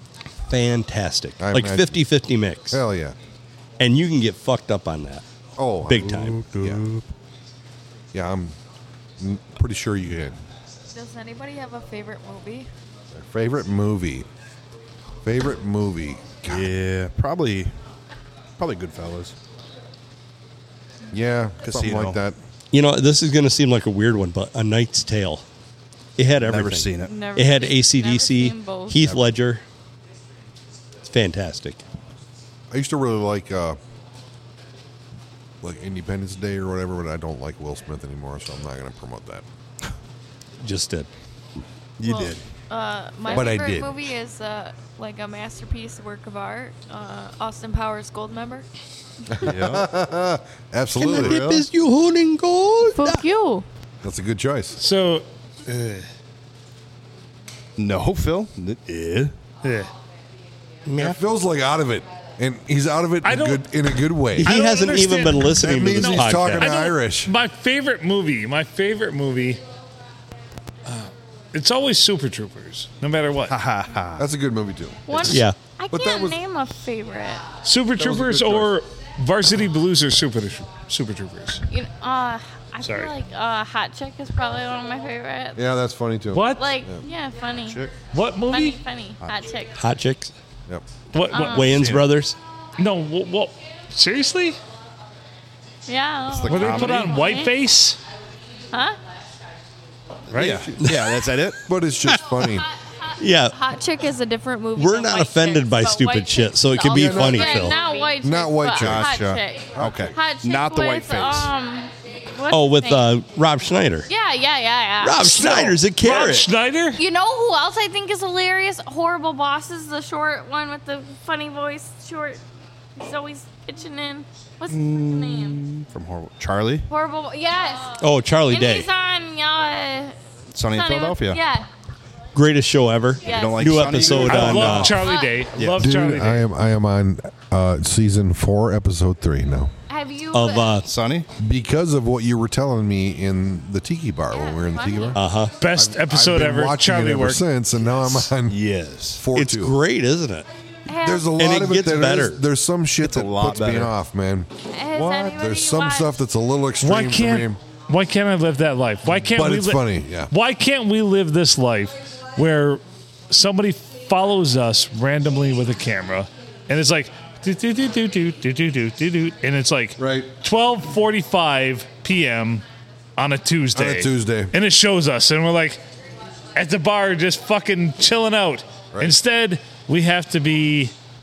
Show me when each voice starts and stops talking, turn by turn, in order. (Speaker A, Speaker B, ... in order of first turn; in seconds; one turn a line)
Speaker A: 0.5-2.8
Speaker B: 1.4-2.0
Speaker B: 2.7-3.1
Speaker A: 3.8-5.2
Speaker B: 5.6-6.8
Speaker A: 5.9-6.4
Speaker C: 6.0-7.1
Speaker B: 8.1-8.6
Speaker B: 9.2-10.4
Speaker D: 10.9-12.7
Speaker B: 13.1-14.3
Speaker B: 15.2-16.7
Speaker C: 16.5-17.7
Speaker C: 18.6-19.3
Speaker B: 21.1-22.4
Speaker C: 21.6-22.2
Speaker A: 22.7-25.4
Speaker A: 26.2-29.6
Speaker C: 26.4-27.2
Speaker E: 27.1-29.1
Speaker A: 31.0-31.8
Speaker B: 32.7-33.8
Speaker B: 35.6-39.4
Speaker A: 40.6-41.1
Speaker C: 42.0-42.4
Speaker D: 42.0-48.7
Speaker B: 43.3-44.0
Speaker B: 49.4-51.6
Speaker C: 49.4-49.9
Speaker A: 51.0-53.2
Speaker C: 51.1-51.6
Speaker D: 52.9-53.6
Speaker B: 54.0-54.8
Speaker F: 54.8-56.0
Speaker C: 57.8-59.3
Speaker F: 59.6-59.9
Speaker A: 60.9-61.1
Speaker B: 61.0-64.5
Speaker F: 63.2-63.6
Speaker A: 64.3-66.7
Speaker F: 64.4-69.6
Speaker B: 65.5-67.3
Speaker F: 70.9-73.5
Speaker C: 73.5-74.2
Speaker B: 74.2-76.4
Speaker E: 75.1-77.4
Speaker A: 75.2-75.5
Speaker F: 77.6-81.6
Speaker B: 78.0-78.7
Speaker E: 81.7-85.6
Speaker F: 82.8-83.1
Speaker B: 85.5-87.0
Speaker F: 86.3-86.7
Speaker E: 86.5-87.8
Speaker C: 87.7-87.9
Speaker F: 88.1-88.8
Speaker E: 88.5-89.8
Speaker A: 89.7-90.3
Speaker F: 91.1-91.9
Speaker E: 91.3-91.7
Speaker A: 91.3-92.3
Speaker C: 91.7-92.0
Speaker F: 92.8-94.6
Speaker E: 95.9-97.5
Speaker C: 96.4-97.2
Speaker F: 96.5-98.0
Speaker E: 98.7-99.0
Speaker F: 100.3-100.6
Speaker C: 100.3-101.6
Speaker B: 100.3-100.9
Speaker A: 100.8-101.2
Speaker B: 101.6-102.7
Speaker A: 102.1-102.6
Speaker E: 103.0-113.1
Speaker A: 103.2-103.5
Speaker A: 104.8-107.8
Speaker B: 106.9-109.2
Speaker D: 107.5-108.1
Speaker C: 108.8-111.5
Speaker B: 109.8-110.1
Speaker A: 112.5-114.1
Speaker E: 114.0-115.4
Speaker A: 115.0-116.5
Speaker F: 115.2-117.0
Speaker E: 117.0-122.4
Speaker E: 123.0-125.6
Speaker C: 124.7-126.8
Speaker E: 126.9-130.2
Speaker A: 128.0-128.9
Speaker C: 130.5-131.4
Speaker E: 130.7-131.7
Speaker A: 132.3-134.9
Speaker E: 133.2-135.4
Speaker C: 133.3-134.9
Speaker F: 134.3-136.5
Speaker C: 135.6-135.9
Speaker B: 135.8-139.7
Speaker E: 139.9-140.8
Speaker A: 140.3-140.9
Speaker C: 140.8-141.3
Speaker B: 141.4-148.6
Speaker E: 144.3-145.2
Speaker A: 145.1-145.6
Speaker F: 145.6-147.4
Speaker C: 148.5-149.2
Speaker B: 149.2-149.8
Speaker A: 149.3-150.5
Speaker E: 150.9-151.3
Speaker B: 150.9-154.5
Speaker A: 151.4-152.4
Speaker C: 153.0-153.9
Speaker E: 154.7-156.2
Speaker C: 154.9-155.4
Speaker B: 155.3-157.6
Speaker F: 156.8-172.6
Speaker B: 159.1-160.3
Speaker B: 170.0-170.3
Speaker F: 173.2-175.8
Speaker B: 173.7-174.5
Speaker F: 176.6-180.9